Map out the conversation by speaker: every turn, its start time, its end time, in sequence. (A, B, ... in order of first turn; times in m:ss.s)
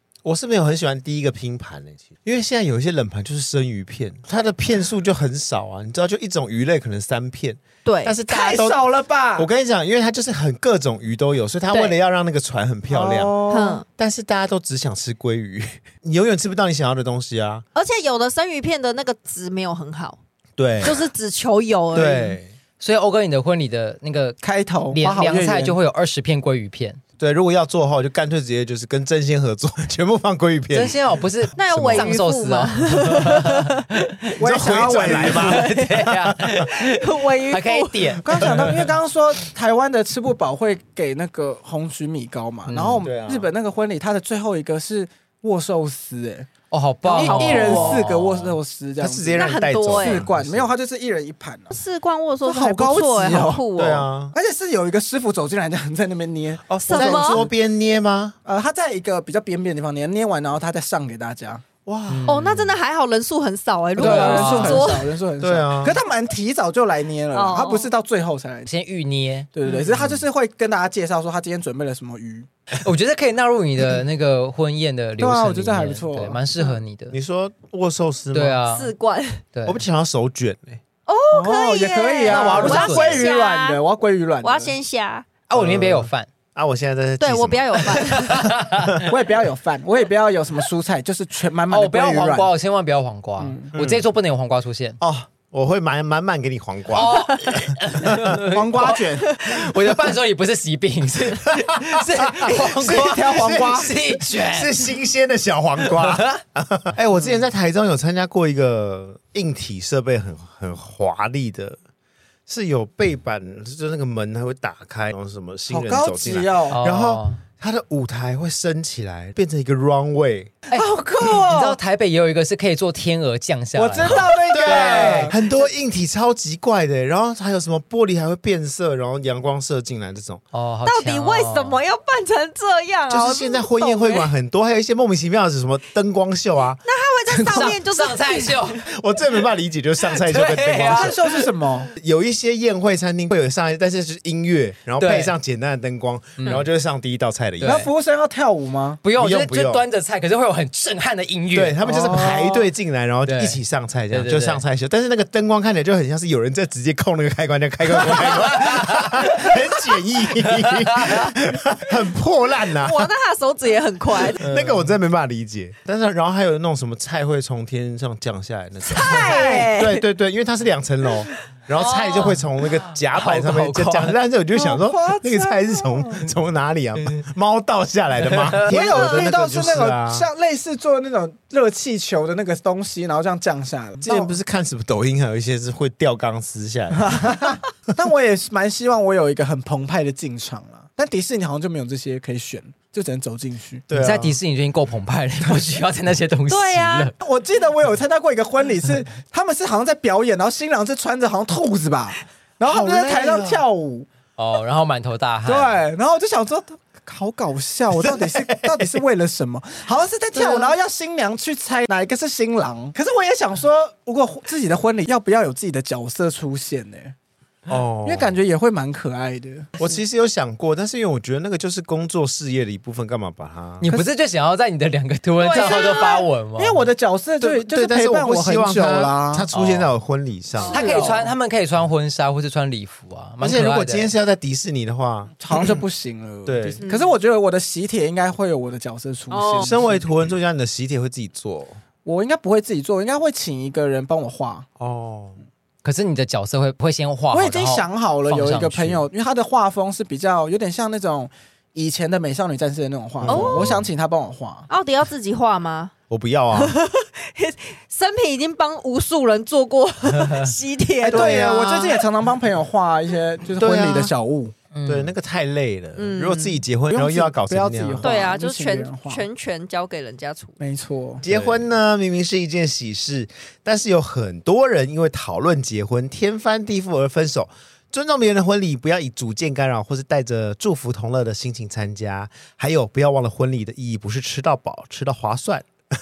0:00.2-0:08.8 A
0:07.8-0:08.2 B
0:08.3-0:09.5 C
0:09.4-0:13.3 A
0:12.9-0:13.8 C
0:13.5-0:13.8 B
0:14.0-0:17.6 A
0:17.8-0:20.2 B
0:20.6-0:21.0 A
0:20.8-0:22.4 B
0:21.9-0:22.5 A
0:22.8-0:27.0 D
0:24.4-0:25.8 C
0:27.2-0:31.0 A
0:30.7-0:34.3 D
0:31.6-0:33.9 B
0:31.6-0:32.2 A
0:34.4-0:35.7 C
0:34.4-0:36.6 A
0:35.0-0:38.9 D
0:36.6-0:38.2 B
0:38.2-0:46.5 C
0:38.4-0:38.9 A
0:42.7-0:43.1 D
0:43.0-0:43.5 A
0:46.7-0:48.6 D
0:47.0-0:48.0 B
0:47.1-0:51.7 C
0:49.0-0:50.7 A
0:49.4-0:50.2 B
0:51.7-0:54.1 B
0:52.4-0:53.6 C
0:53.8-0:54.4 A
0:54.3-0:57.5 C
0:56.7-0:58.4 A
0:56.8-0:57.4 B
0:58.4-1:01.6 C
1:01.9-1:02.3 A
1:02.1-1:02.8 D
1:02.3-1:05.1 B
1:04.0-1:08.7 C
1:04.0-1:05.1 D
1:05.4-1:06.0 A
1:07.3-1:07.9 B
1:08.7-1:09.5 D
1:09.5-1:12.5 C
1:12.8-1:17.2 D
1:15.2-1:16.4 C
1:17.1-1:18.7 A
1:18.3-1:18.9 D
1:18.7-1:19.4 B
1:19.5-1:19.8 D
1:19.7-1:20.8 A
1:21.1-1:23.8 B
1:21.3-1:24.8 C
1:22.3-1:23.3 D
1:22.3-1:23.0 A
1:24.4-1:25.3 B
1:25.5-1:26.3 D
1:25.5-1:29.1 A
1:27.2-1:28.5 B
1:28.0-1:29.0 D
1:29.1-1:32.5 C
1:31.7-1:35.0 D
1:33.4-1:33.7 C
1:33.7-1:34.0 A
1:35.0-1:38.4 A
1:36.9-1:44.9 D
1:38.5-1:39.3 C
1:41.6-1:51.8 A
1:42.6-1:43.9 C
1:45.8-1:46.4 D
1:52.5-2:00.5 A
1:55.7-1:56.8 C
1:56.7-1:57.4 D
2:00.7-2:05.3 D
2:00.8-2:01.8 C
2:03.8-2:05.4 C
2:04.2-2:04.4 B
2:04.5-2:10.4 A
2:10.5-2:11.8 D
2:10.8-2:14.3 B
2:13.1-2:16.8 A
2:16.8-2:18.7 B
2:17.3-2:18.8 D
2:18.9-2:21.2 A
2:20.0-2:21.5 D
2:20.7-2:21.9 C
2:22.0-2:27.9 A
2:25.0-2:25.3 D
2:26.4-2:26.7 D
2:27.6-2:27.9 D
2:27.6-2:29.0 C
2:29.0-2:32.5 D
2:29.2-2:29.8 A
2:31.5-2:43.1 A
2:31.8-2:32.6 C
2:33.3-2:33.6 D
2:34.1-2:34.6 D
2:38.2-2:39.3 D
2:40.6-2:41.3 D
2:42.8-2:44.4 B
2:44.4-3:00.3 A
2:44.4-2:44.9 D
2:48.8-2:50.0 B
2:49.0-2:49.7 C
2:51.8-2:52.4 B
2:53.1-2:54.1 D
2:54.6-2:56.3 C
2:58.3-2:58.8 D
2:58.7-3:04.3 C
2:59.0-2:59.2 B
3:04.0-3:07.4 A
3:07.0-3:13.8 C
3:13.9-3:14.4 A
3:13.9-3:17.1 D
3:16.5-3:17.1 B
3:17.2-3:24.1 C
3:22.6-3:23.6 A
3:24.4-3:25.8 D
3:25.5-3:37.2 C
3:28.0-3:29.0 A
3:30.3-3:30.7 A
3:37.7-3:38.4 A
3:38.0-3:39.8 C
3:39.8-3:43.9 A
3:43.8-3:46.9 D
3:45.4-3:46.3 B
3:45.6-3:49.5 C
3:47.4-3:50.8 A
3:49.5-3:49.9 D
3:50.6-3:51.2 B
3:50.7-3:54.1 D
3:50.7-3:51.3 C
3:53.4-3:55.8 A
3:55.4-4:00.2 C
3:56.5-3:56.8 A
3:56.8-3:57.1 B
3:59.3-3:59.7 B
3:59.6-4:01.8 A
4:02.0-4:04.7 C
4:04.8-4:05.4 A
4:05.8-4:09.1 D
4:07.3-4:14.7 C
4:13.2-4:13.9 A
4:13.3-4:13.6 B
4:14.7-4:15.9 B
4:16.1-4:16.8 A
4:16.5-4:22.0 B
4:21.1-4:21.7 A
4:21.1-4:24.5 C
4:23.6-4:24.1 A
4:24.7-4:25.1 D
4:24.8-4:28.1 A
4:26.0-4:26.6 B
4:26.9-4:29.2 C
4:28.0-4:30.6 B
4:30.6-4:31.2 C
4:31.2-4:45.7 A